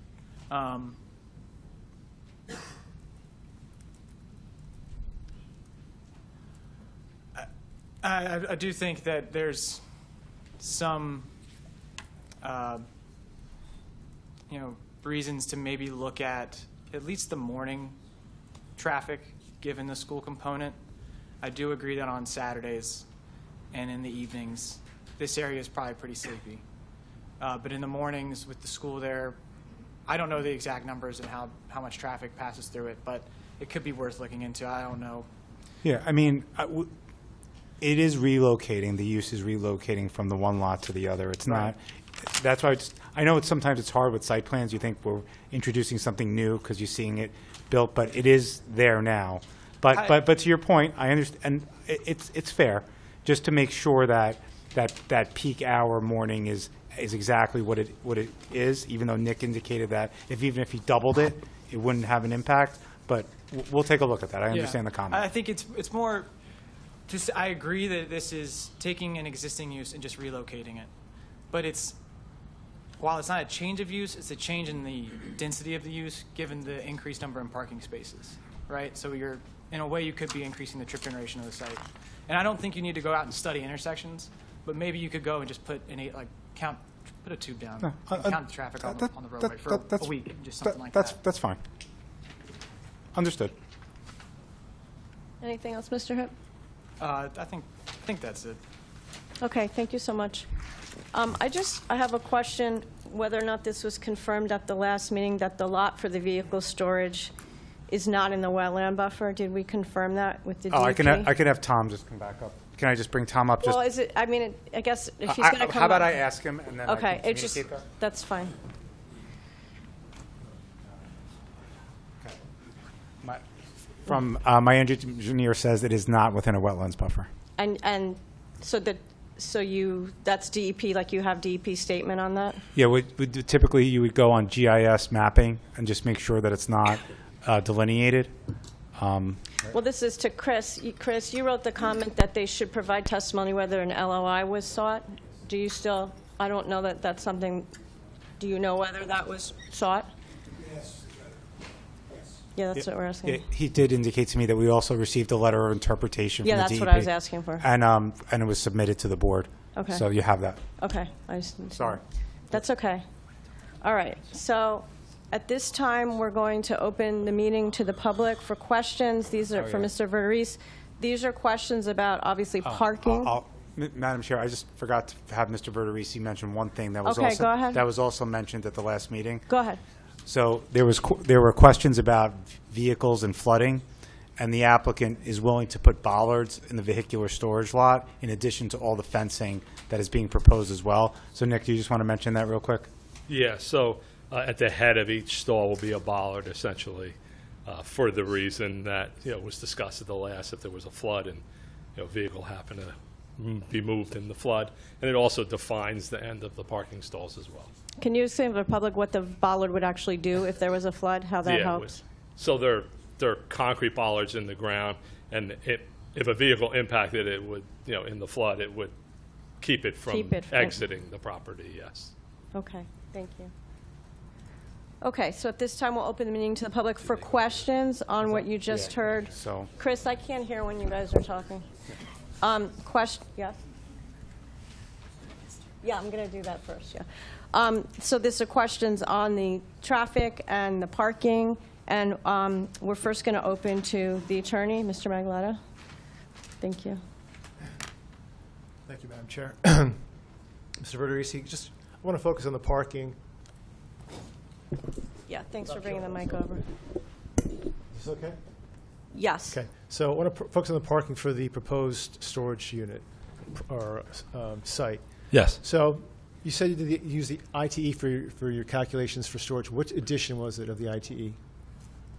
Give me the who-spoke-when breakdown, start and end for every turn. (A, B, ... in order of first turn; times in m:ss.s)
0:00.5-0:01.0 A
0:08.0-0:09.8 A
0:10.6-0:11.3 A
0:12.4-0:12.8 A
0:14.5-0:18.0 A
0:18.8-0:20.8 A
0:21.4-0:23.1 A
0:23.7-0:26.6 A
0:27.4-0:29.4 A
0:30.1-0:35.3 A
0:35.8-0:36.9 B
0:37.8-1:05.3 B
1:04.5-1:06.3 A
1:07.1-1:10.9 A
1:11.5-1:12.0 A
1:13.0-1:31.2 A
1:27.8-1:30.1 B
1:30.6-1:31.6 B
1:33.2-1:33.5 B
1:35.4-1:36.3 C
1:37.0-1:38.6 A
1:39.4-1:40.5 C
1:41.1-1:47.3 C
1:47.9-1:51.3 C
1:50.7-1:53.8 B
1:53.6-1:56.2 C
1:55.3-1:57.9 B
1:56.9-1:58.6 C
2:04.0-2:07.3 B
2:07.6-2:12.6 C
2:12.8-2:18.3 B
2:19.0-2:19.7 B
2:19.7-2:27.7 C
2:28.4-2:30.1 C
2:32.6-2:33.4 C
2:32.8-2:40.6 B
2:36.4-2:37.6 C
2:39.8-2:40.0 C
2:40.8-2:43.0 C
2:41.7-2:42.0 B
2:43.8-2:53.3 C
2:49.6-2:49.9 B
2:52.6-2:59.5 B
2:57.0-2:57.8 C
2:59.5-2:59.8 C
3:00.3-3:03.8 B
3:04.4-3:12.9 B
3:13.3-3:21.4 D
3:22.0-3:27.7 D
3:28.0-3:32.0 C
3:31.4-3:38.9 D
3:39.6-3:42.1 D
3:40.1-3:40.8 C
3:42.5-3:43.5 C
3:45.0-3:51.7 C
3:48.7-3:49.7 B
3:52.4-3:53.6 C
3:55.8-4:05.6 C
4:06.6-4:07.0 C
4:08.9-4:10.0 E
4:10.8-4:13.2 E
4:15.3-4:16.7 C
4:15.8-4:16.2 E
4:17.9-4:18.4 E
4:19.1-4:19.6 C
4:19.5-4:31.4 E
4:25.3-4:25.6 D